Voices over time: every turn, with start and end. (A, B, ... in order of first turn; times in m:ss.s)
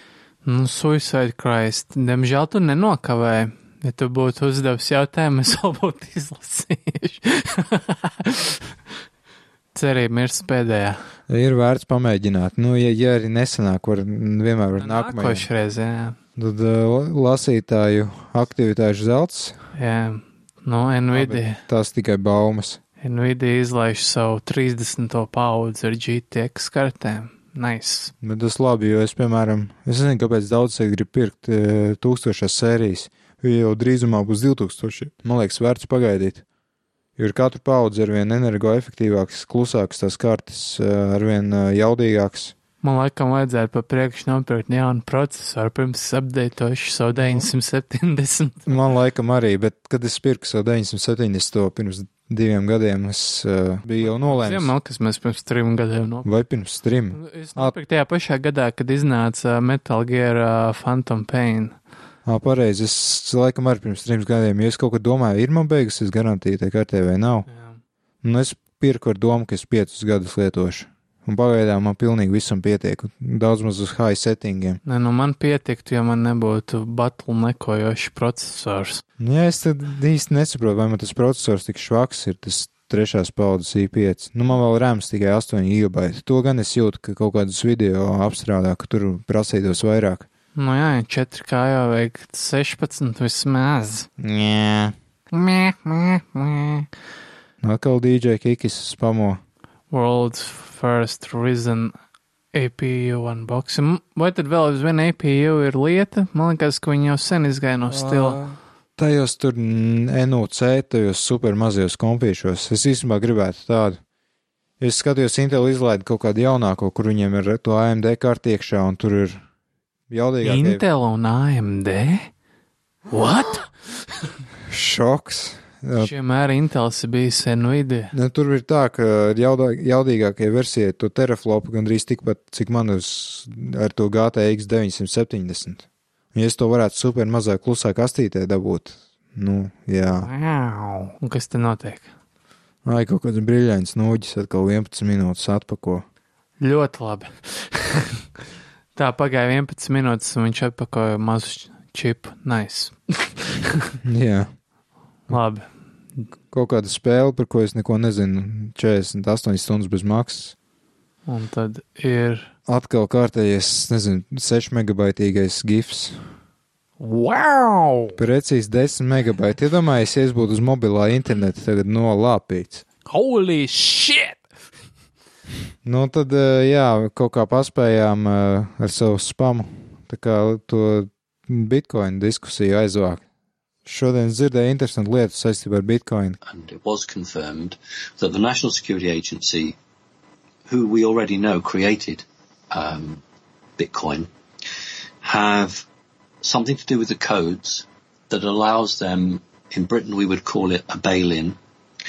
0:00.4-0:08.8 A
0:09.7-0:11.0 A
0:11.3-0:15.5 B
0:14.8-0:16.2 A
0:16.4-0:19.6 B
0:19.7-0:21.6 A
0:21.1-0:22.8 B
0:23.0-0:28.1 A
0:28.2-0:36.4 B
0:37.2-0:42.6 B
0:42.8-0:48.8 A
0:47.2-0:47.4 B
0:48.6-0:54.7 B
0:54.0-0:56.3 A
0:56.2-0:57.8 B
0:57.1-1:01.7 A
1:02.2-1:07.4 B
1:08.2-1:14.8 B
1:14.8-1:19.0 A
1:19.2-1:30.3 B
1:30.6-1:34.1 A
1:34.2-1:34.9 B
1:35.3-1:36.9 A
1:37.6-1:39.4 B
1:39.9-1:41.9 A
1:42.5-1:48.4 A
1:47.9-1:54.0 B
1:54.8-1:59.4 B
2:00.1-2:00.8 B
2:00.4-2:02.3 A
2:03.1-2:03.7 A
2:04.7-2:06.1 B
2:06.0-2:08.1 A
2:08.1-2:20.3 B
2:20.0-2:22.1 A
2:22.8-2:26.0 B
2:26.6-2:28.2 A
2:29.0-2:33.9 A
2:34.0-2:34.5 B
2:35.3-2:35.7 A
2:36.5-2:40.6 B
2:41.3-2:42.5 A
2:42.7-2:46.3 B
2:47.0-2:48.2 A
2:48.2-2:52.8 B
2:53.0-2:54.4 A
2:55.8-3:03.2 B
3:03.8-3:06.4 B
3:06.4-3:09.8 C
3:10.7-3:13.2 C
3:13.8-3:14.3 C
3:15.2-3:15.8 C
3:16.4-3:21.6 C